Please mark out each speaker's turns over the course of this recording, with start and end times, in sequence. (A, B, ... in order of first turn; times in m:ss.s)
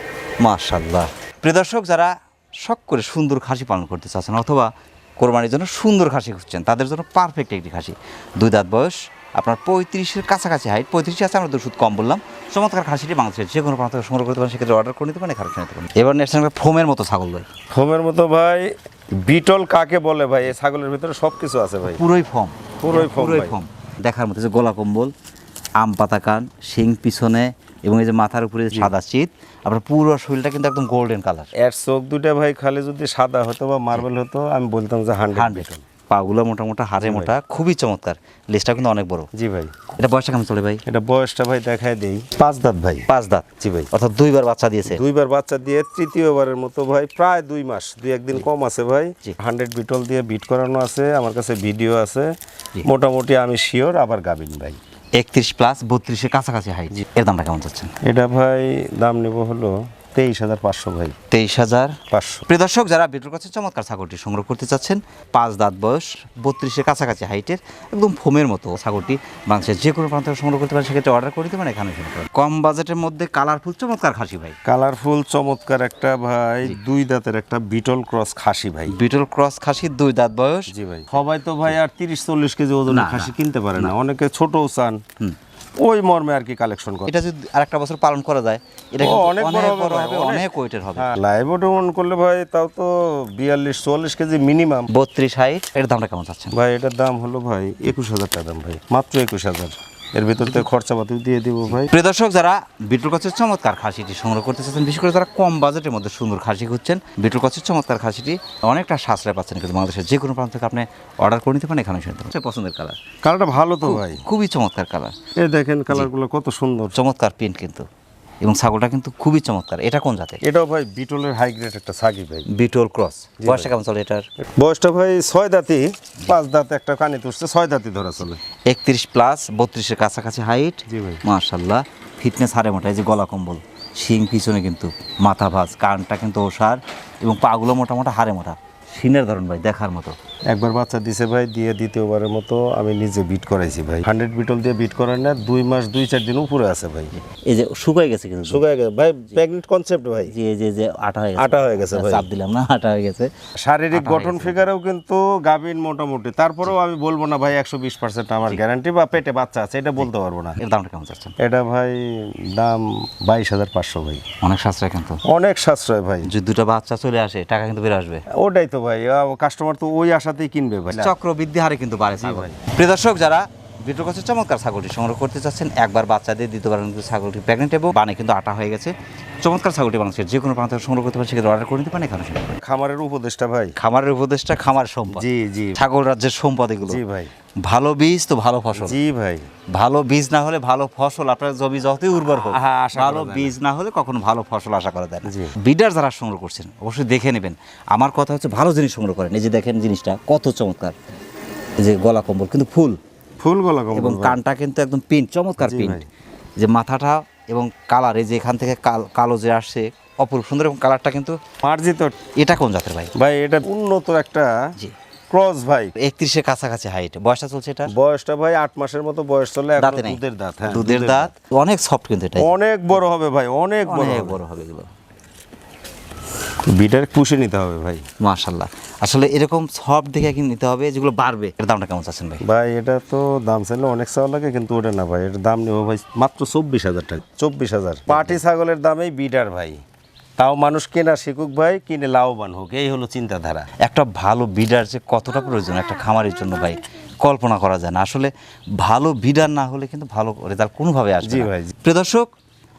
0:00.4-0:17.5 A
0:17.7-0:22.0 B
0:21.9-0:25.1 A
0:22.8-0:23.6 B
0:25.8-0:31.5 A
0:31.6-0:35.8 B
0:35.3-0:39.3 A
0:37.0-0:37.3 B
0:39.3-0:39.7 B
0:39.9-0:40.8 A
0:40.9-0:43.1 B
0:43.1-0:45.0 A
0:43.6-0:43.9 B
0:44.8-0:54.8 B
0:55.2-0:57.9 A
0:58.0-1:01.2 B
1:01.3-1:14.6 A
1:02.1-1:02.4 B
1:14.6-1:19.0 B
1:18.9-1:20.7 A
1:20.7-1:25.0 B
1:22.9-1:23.9 A
1:25.8-1:27.1 B
1:27.0-1:31.1 A
1:29.0-1:34.9 B
1:34.9-1:36.5 A
1:36.5-1:41.9 B
1:41.7-1:53.0 A
1:53.2-1:54.2 B
1:53.8-1:55.1 A
1:55.4-1:57.0 B
1:56.9-1:57.8 A
1:58.4-2:00.4 A
2:00.4-2:02.5 B
2:02.5-2:04.2 A
2:03.4-2:03.7 B
2:04.4-2:08.4 B
2:08.7-2:20.1 A
2:10.9-2:11.2 B
2:20.5-2:27.1 B
2:27.3-2:28.6 A
2:28.4-2:30.3 B
2:30.3-2:33.3 A
2:31.4-2:32.3 B
2:33.6-2:40.6 B
2:33.9-2:34.6 A
2:40.6-2:41.3 A
2:41.4-2:44.2 B
2:44.4-2:45.2 A
2:45.2-2:46.3 B
2:46.2-2:48.2 A
2:48.3-2:51.1 B
2:50.9-3:02.6 A
2:52.2-2:52.6 B
3:02.6-3:03.7 B
3:03.8-3:07.0 A
3:05.1-3:05.8 B
3:06.8-3:07.3 B
3:07.6-3:09.0 A
3:08.8-3:09.5 B
3:09.7-3:20.9 A
3:12.3-3:13.6 B
3:15.3-3:15.5 B
3:21.8-3:23.0 A
3:23.4-3:24.4 B
3:23.9-3:26.0 A
3:25.6-3:26.0 B
3:26.6-3:31.4 A
3:31.6-3:32.1 B
3:32.4-3:33.1 A
3:33.2-3:34.5 B
3:35.3-3:35.9 B
3:36.0-3:37.9 A
3:37.9-3:41.3 B
3:39.8-3:42.5 A
3:42.4-3:44.4 B
3:43.8-3:44.9 A
3:46.7-3:48.0 B
3:48.2-3:52.4 A
3:52.4-3:59.8 B
3:58.1-3:58.4 A
4:00.4-4:03.7 B
4:03.8-4:12.3 A
4:11.2-4:11.7 B